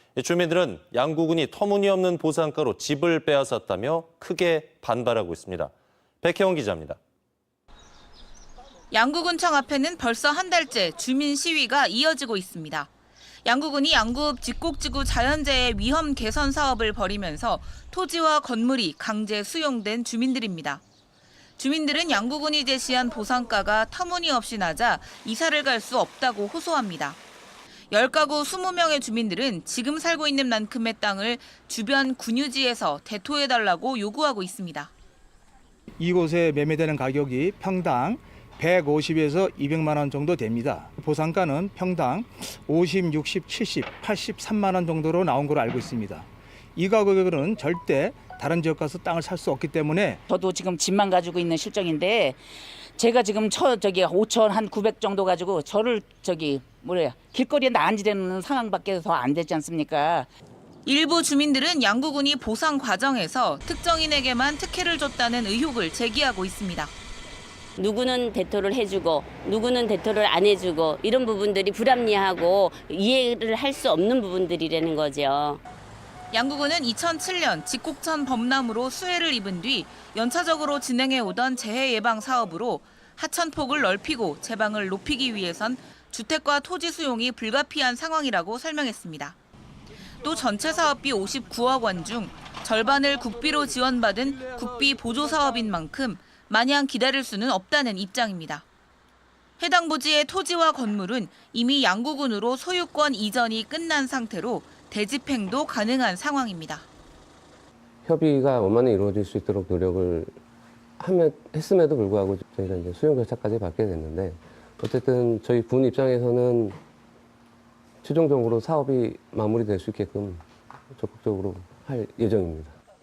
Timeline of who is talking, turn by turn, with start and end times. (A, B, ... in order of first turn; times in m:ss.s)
0:00.2-0:07.0 A
0:08.9-0:12.9 B
0:13.4-0:20.8 B
0:21.6-0:27.2 B
0:27.9-0:34.9 B
0:36.0-0:50.2 C
0:50.3-0:52.4 D
0:53.0-1:00.3 D
1:00.8-1:06.9 B
1:07.8-1:15.6 E
1:16.3-1:29.4 B
1:30.2-1:38.6 B
1:39.6-1:46.9 B
1:48.0-1:50.4 F
1:51.0-1:56.8 F
1:58.0-2:02.8 F